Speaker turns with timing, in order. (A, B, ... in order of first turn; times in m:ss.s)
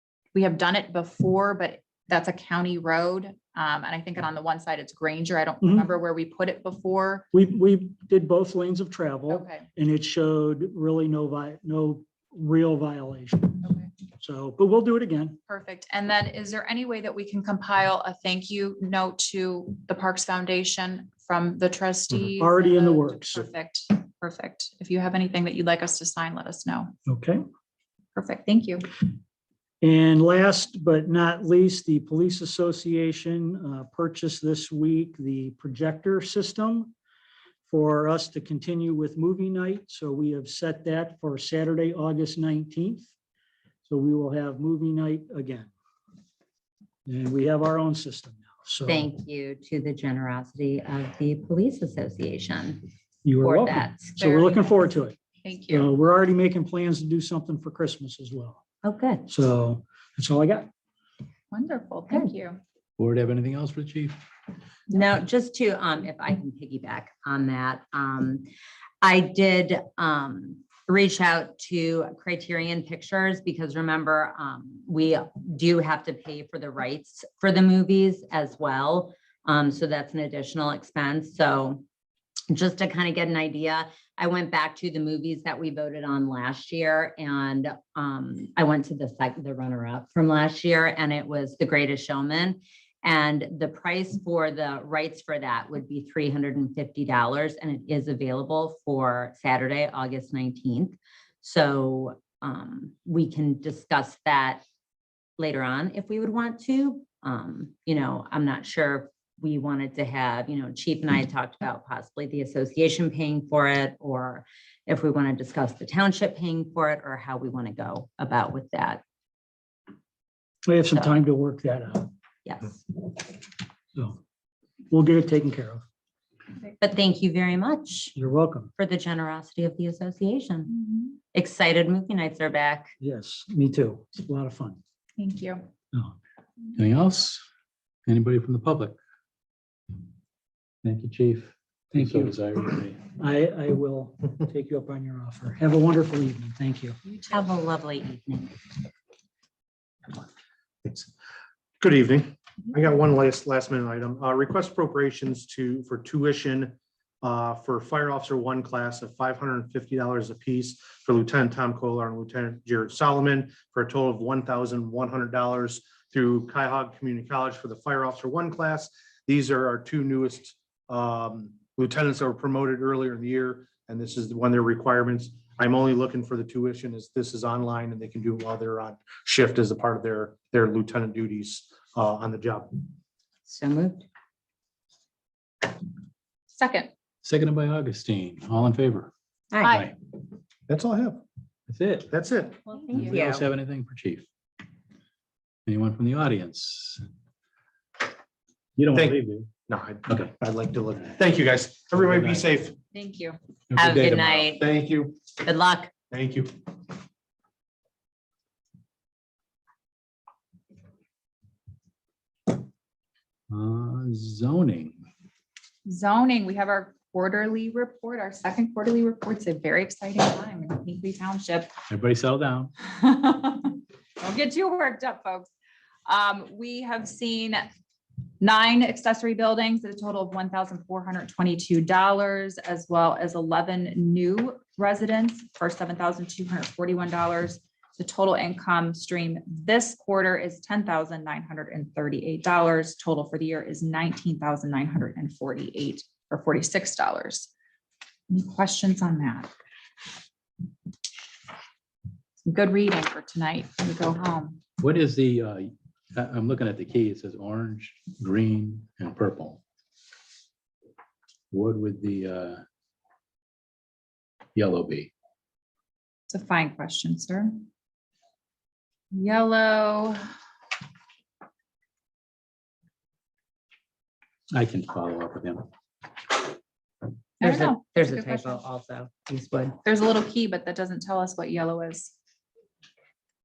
0:00.3-0:07.2 A
0:05.6-0:05.9 B
0:07.3-0:13.6 B
0:09.3-0:09.7 A
0:13.6-0:13.9 A
0:14.2-0:15.4 B
0:15.5-0:26.9 A
0:22.4-0:23.4 B
0:27.1-0:27.4 B
0:28.2-0:28.9 A
0:29.8-0:36.9 B
0:37.7-0:43.1 B
0:43.8-0:45.7 B
0:47.1-0:49.1 B
0:48.9-0:52.8 C
0:53.2-0:55.2 B
0:53.4-0:54.1 C
0:54.2-0:55.9 A
0:55.7-0:58.6 B
0:58.8-0:59.3 C
0:59.3-1:00.7 B
1:01.5-1:02.6 A
1:03.0-1:04.2 D
1:04.9-1:08.5 C
1:09.0-1:21.8 C
1:22.5-1:44.6 C
1:45.4-1:59.0 C
2:00.7-2:02.1 B
2:02.4-2:03.1 C
2:04.9-2:05.8 B
2:06.8-2:08.1 C
2:08.2-2:08.7 B
2:08.8-2:10.7 C
2:10.7-2:11.2 A
2:11.3-2:12.9 C
2:13.0-2:14.8 B
2:15.2-2:15.6 A
2:16.8-2:17.4 D
2:18.1-2:19.0 D
2:20.8-2:23.0 D
2:21.9-2:22.4 B
2:23.2-2:27.0 B
2:27.1-2:28.5 C
2:30.8-2:31.1 E
2:31.8-3:02.8 E
3:03.5-3:04.1 C
3:06.6-3:06.9 A
3:07.2-3:09.1 D
3:09.5-3:09.8 C
3:09.6-3:09.9 A
3:09.7-3:09.9 D
3:10.7-3:11.2 E
3:11.7-3:12.1 D
3:12.1-3:12.6 E
3:12.8-3:13.5 C
3:12.9-3:14.2 D
3:15.7-3:17.0 D
3:18.8-3:19.5 D
3:18.9-3:22.8 E
3:22.0-3:22.5 D
3:22.9-3:23.4 A
3:23.7-3:24.4 D
3:23.8-3:24.6 C
3:24.5-3:25.2 E
3:25.4-3:25.9 C
3:26.1-3:26.5 E
3:33.5-3:35.0 D
3:35.9-3:41.7 A
3:41.9-3:42.7 D
3:42.8-3:45.5 A
3:46.1-3:47.6 A
3:48.4-4:07.5 A
4:08.3-4:09.5 A
4:12.5-4:14.6 A
4:14.8-4:19.6 D
4:21.5-4:22.6 D
4:24.6-4:25.1 D
4:26.3-4:27.5 A
4:29.1-4:30.2 A
4:34.5-4:35.7 D
4:37.4-4:38.6 A
4:37.4-4:39.8 C
4:39.8-4:42.1 A